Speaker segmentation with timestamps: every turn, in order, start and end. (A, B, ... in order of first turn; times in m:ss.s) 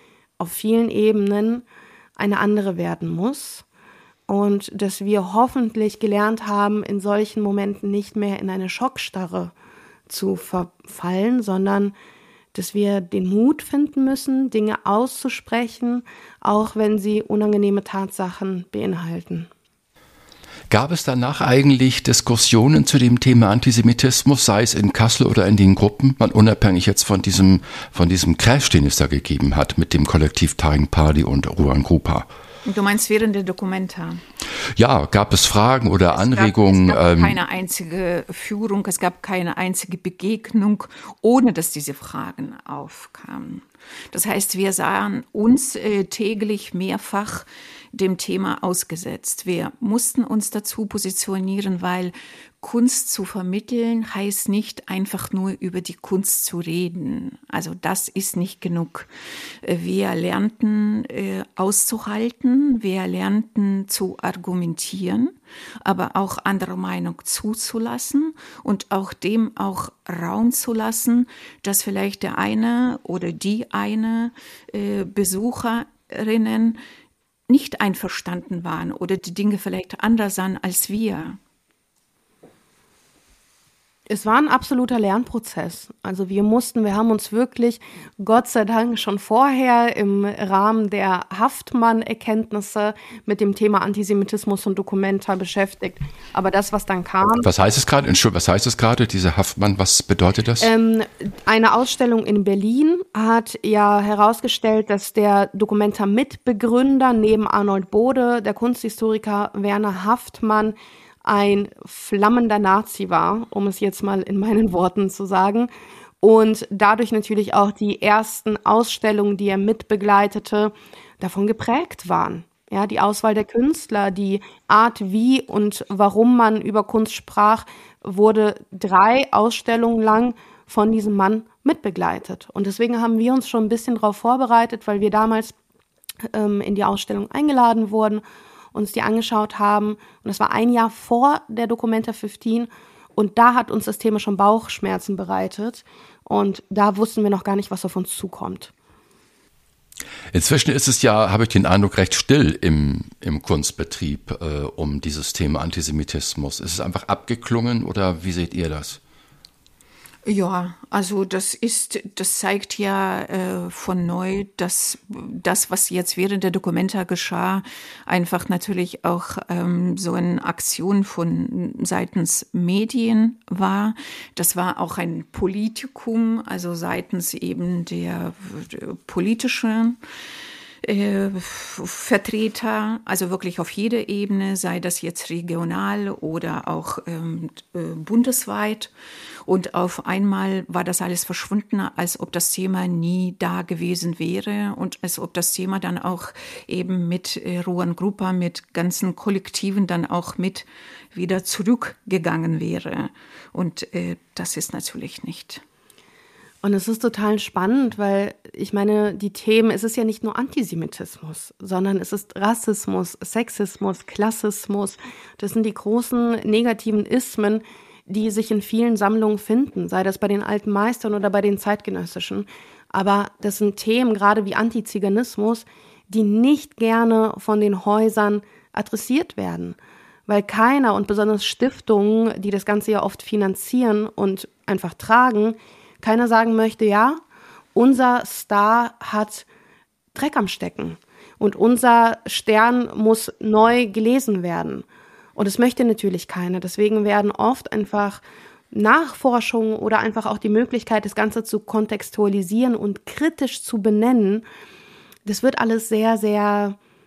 0:00.4-0:01.6 A
0:02.2-0:03.6 A
0:04.3-0:09.5 A
0:10.1-0:11.9 A
0:12.5-0:19.5 A
0:20.7-0:32.3 B
0:32.6-0:34.2 C
0:34.8-0:37.4 B
0:36.1-0:59.1 C
0:59.6-1:16.8 C
1:17.5-1:21.4 C
1:24.1-1:37.5 A
1:37.4-1:40.7 B
1:40.6-1:55.7 A
1:56.2-2:15.6 A
2:16.3-2:18.2 A
2:18.7-2:28.7 A
2:30.3-2:39.0 B
2:40.2-3:00.0 C
3:00.8-3:08.9 C
3:09.4-3:25.6 C
3:26.6-3:49.8 A
3:50.3-3:57.2 A
3:57.7-3:59.4 A
4:00.1-4:14.4 A
4:15.2-4:16.8 A